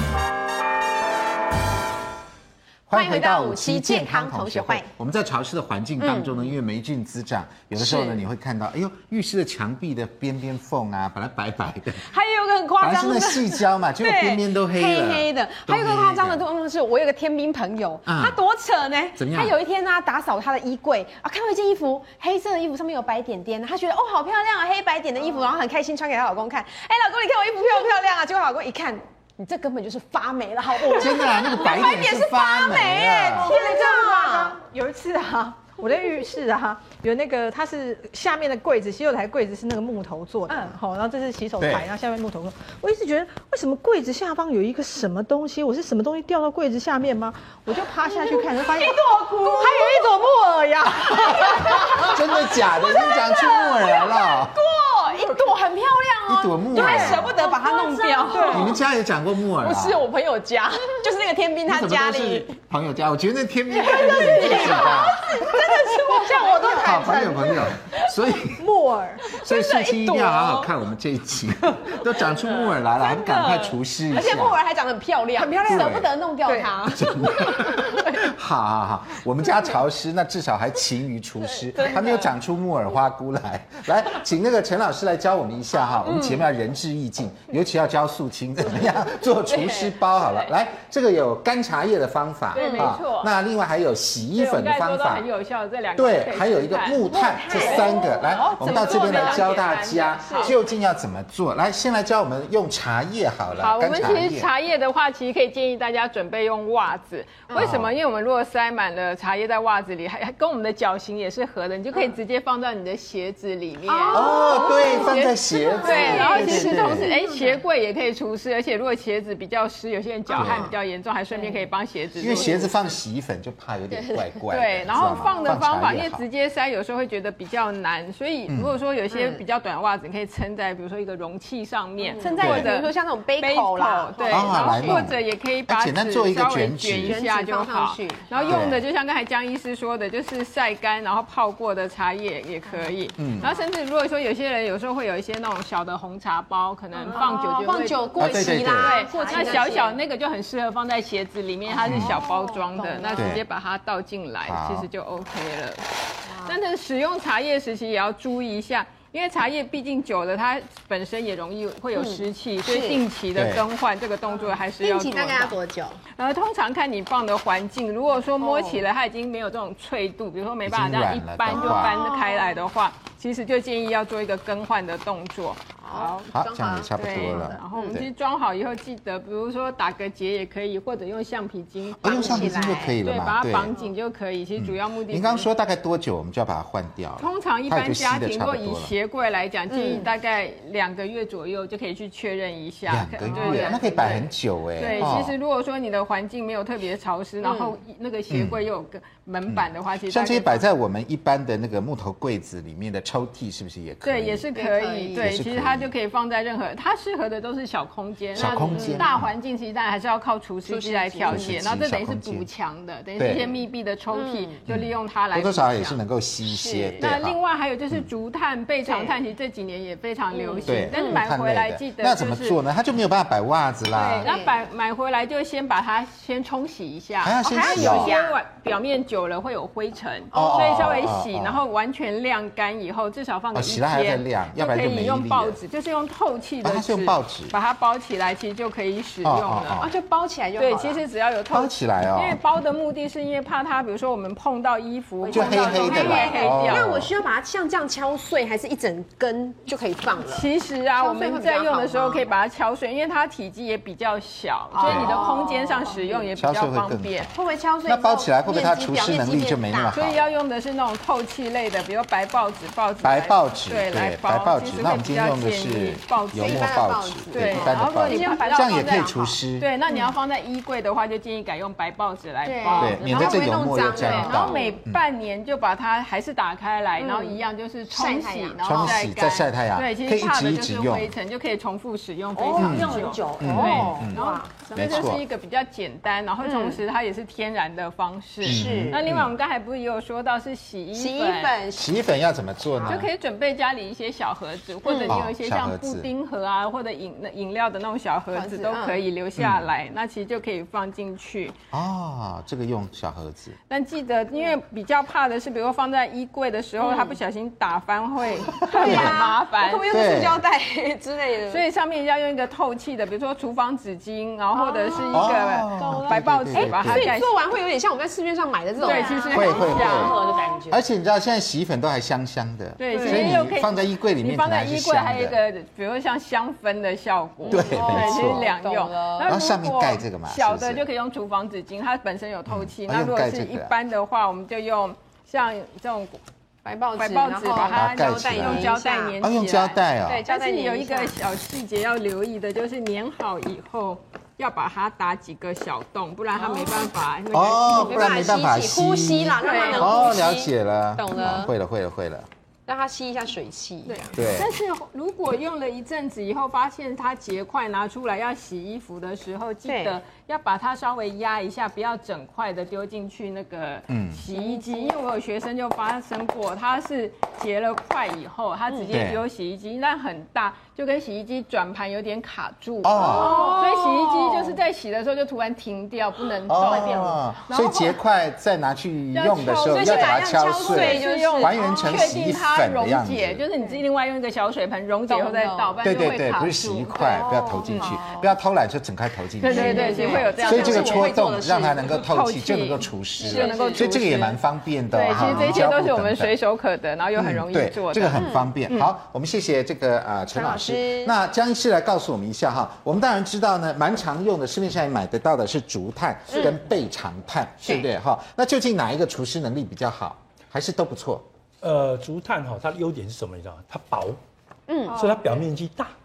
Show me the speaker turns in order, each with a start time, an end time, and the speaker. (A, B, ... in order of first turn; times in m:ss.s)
0:02.9-0:12.0 A
0:02.9-0:04.9 B
0:06.0-0:06.5 B
0:07.8-0:08.2 B
0:12.0-0:34.6 B
0:12.8-0:16.4 A
0:18.0-0:18.4 A
0:19.2-0:19.6 A
0:30.9-0:33.5 A
0:33.4-0:52.1 C
0:41.6-0:41.9 A
0:48.0-0:50.3 B
0:50.8-0:58.8 B
0:51.5-0:54.6 A
0:56.3-0:57.3 A
0:56.9-0:57.4 C
0:57.7-0:58.4 D
0:58.2-0:58.7 C
0:58.5-1:00.1 A
0:59.6-1:02.5 B
1:01.6-1:05.4 A
1:03.7-1:08.0 B
1:03.9-1:05.1 C
1:05.8-1:07.6 C
1:06.7-1:08.6 A
1:08.4-1:09.4 C
1:09.3-1:10.7 B
1:09.3-1:14.6 A
1:11.8-1:12.3 B
1:13.0-1:18.3 B
1:15.3-1:16.9 C
1:15.6-1:16.1 A
1:16.9-1:35.3 A
1:21.7-1:22.3 B
1:25.9-1:26.4 B
1:29.5-1:30.5 D
1:32.5-1:33.3 D
1:32.6-1:32.9 B
1:34.3-1:40.6 D
1:36.0-1:44.5 A
1:37.0-1:39.6 B
1:40.2-1:40.5 B
1:43.6-2:02.7 D
1:47.6-1:47.9 A
1:53.9-1:57.6 B
1:54.1-1:57.1 A
2:00.3-2:00.7 B
2:00.3-2:00.7 A
2:01.3-2:01.7 B
2:02.2-2:02.7 B
2:02.2-2:06.2 A
2:03.9-2:04.3 B
2:04.5-2:35.8 D
2:05.0-2:05.6 B
2:08.5-2:08.8 A
2:09.1-2:09.4 B
2:12.0-2:15.1 B
2:12.4-2:12.7 A
2:14.3-2:17.2 A
2:17.0-2:18.7 B
2:18.5-2:18.8 A
2:22.6-2:23.6 B
2:23.2-2:23.5 A
2:26.9-2:30.0 B
2:28.2-2:29.0 A
2:31.7-2:33.4 B
2:31.8-2:32.2 A
2:33.2-2:33.4 A
2:34.4-2:34.9 A
2:36.2-2:36.6 B
2:36.4-2:45.6 D
2:41.9-2:43.0 B
2:43.3-2:43.6 A
2:44.3-2:46.0 B
2:46.2-2:56.3 D
2:48.4-2:48.8 B
2:50.6-2:52.0 A
2:51.5-2:52.6 B
2:55.8-2:58.0 B
2:56.3-2:58.1 A
2:56.9-3:05.5 D
3:02.0-3:03.7 A
3:02.0-3:03.0 B
3:04.6-3:08.9 A
3:07.2-3:14.3 D
3:09.7-3:10.1 B
3:12.9-3:15.3 A
3:13.2-3:14.2 B
3:14.8-3:20.6 D
3:14.8-3:15.2 B
3:17.4-3:17.7 B
3:18.3-3:18.6 A
3:19.5-3:24.4 A
3:24.0-3:36.0 D
3:24.5-3:25.3 B
3:25.1-3:25.9 A
3:28.3-3:29.3 A
3:28.4-3:29.1 B
3:30.6-3:31.6 B
3:31.3-3:32.5 A
3:33.2-3:33.4 A
3:33.3-3:34.6 B
3:34.7-3:37.4 A
3:36.4-3:37.0 B
3:37.0-3:42.6 D
3:38.8-3:39.2 B
3:40.3-3:41.2 B
3:40.6-3:44.3 A
3:43.9-3:59.9 D
3:44.2-3:44.5 B
3:47.2-3:48.2 A
3:47.4-3:48.4 B
3:50.3-3:51.1 B
3:50.3-3:51.6 A
3:53.5-3:55.6 A
3:56.6-3:57.5 A
3:59.2-3:59.9 A
3:59.8-4:01.0 B
4:00.6-4:06.9 D
4:01.5-4:02.4 A
4:05.2-4:12.2 B
4:05.3-4:07.1 A
4:10.2-4:17.3 D
4:14.7-4:16.3 B
4:14.8-4:15.2 A
4:16.4-4:17.3 A
4:17.3-4:20.0 B
4:17.8-4:20.2 A
4:19.9-4:26.7 D
4:23.0-4:29.7 A
4:26.3-4:29.4 B
4:27.3-4:51.6 D
4:29.9-4:30.1 B
4:32.4-4:34.8 B
4:32.8-4:35.0 A
4:33.0-4:33.3 E
4:37.0-4:39.0 B
4:38.6-4:41.1 A
4:42.3-4:44.0 E
4:42.6-4:44.2 A
4:43.4-4:45.1 B
4:44.7-4:45.2 A
4:46.4-4:46.8 B
4:48.4-4:49.0 B
4:48.4-4:49.3 A
4:50.9-4:51.9 B
4:51.7-4:53.1 A
4:52.7-4:53.0 B
4:52.8-5:01.6 D
4:54.8-4:55.2 B
4:55.1-4:56.1 A
4:58.3-4:59.0 B
4:59.4-4:59.7 A
5:01.7-5:03.6 A
5:03.7-5:10.0 D
5:06.8-5:07.2 B
5:08.5-5:11.6 B
5:08.7-5:09.3 A
5:09.9-5:10.4 A
5:11.5-5:17.3 D
5:14.5-5:20.3 B
5:15.1-5:17.2 A
5:18.8-5:20.2 D
5:18.9-5:20.8 E
5:19.3-5:20.2 A
5:20.7-5:25.4 A
5:22.8-5:36.2 D
5:22.9-5:23.5 B
5:27.4-5:29.3 B
5:27.5-5:28.5 A
5:29.2-5:30.8 A
5:32.5-5:33.7 A
5:36.6-5:39.2 B
5:37.0-5:48.1 D
5:37.7-5:40.2 A
5:40.0-5:41.2 B
5:46.4-5:46.8 B
5:47.3-5:52.3 A
5:47.6-5:51.5 B
5:49.4-5:50.2 D
5:52.7-5:54.1 B
5:53.9-6:18.0 D
5:54.1-5:54.5 A
5:59.6-6:00.0 B
6:03.9-6:04.2 A
6:04.3-6:04.9 B
6:08.9-6:09.2 A
6:12.8-6:13.5 A
6:13.0-6:14.6 B
6:16.5-6:23.4 A
6:19.1-6:28.0 D
6:19.4-6:22.2 B
6:25.1-6:25.8 B
6:25.8-6:36.3 A
6:27.0-6:28.3 B
6:29.4-6:31.3 D
6:29.4-6:32.0 B
6:31.9-6:34.4 D
6:33.2-6:33.9 B
6:34.9-6:38.9 D
6:35.0-6:35.7 B
6:37.2-6:51.2 A
6:38.1-6:38.5 B
6:40.3-6:41.1 B
6:46.3-6:46.6 B
6:47.6-6:47.9 B
6:51.6-6:54.2 F
6:54.7-6:55.0 B
6:54.9-6:55.2 C
6:54.9-6:55.9 F